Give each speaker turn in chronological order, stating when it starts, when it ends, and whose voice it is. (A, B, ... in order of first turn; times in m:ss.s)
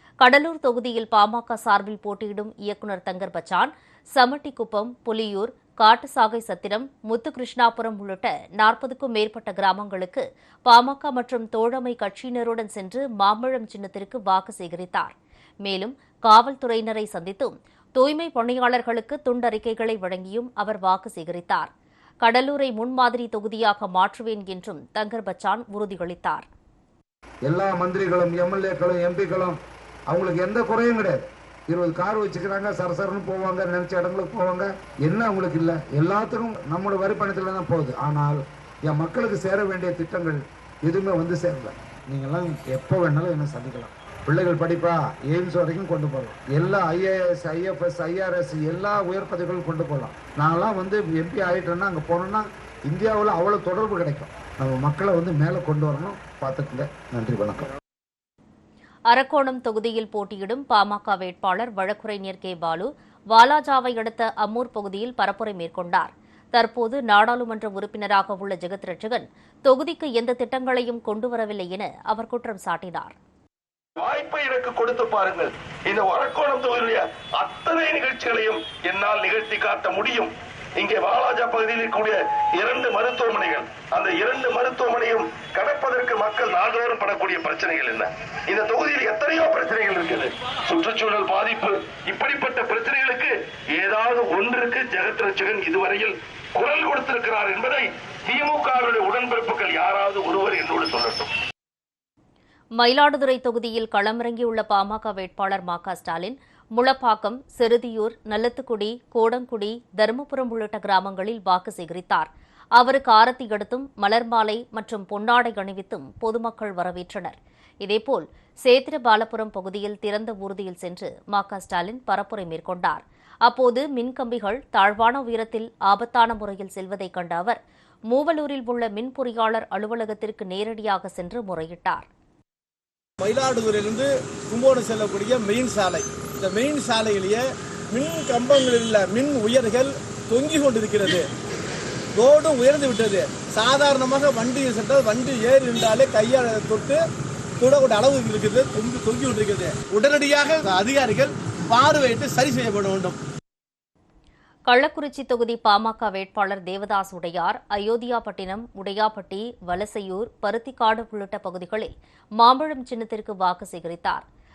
0:00.2-0:21.7 A
0:22.2-0:26.5 A
0:27.5-0:29.6 B
0:30.1-0:57.7 B
0:59.1-1:13.2 A
1:14.0-1:41.3 C
1:42.8-2:12.1 A
2:13.2-2:21.3 D
2:22.2-2:27.0 D
2:27.6-2:33.2 D
2:34.7-2:44.2 A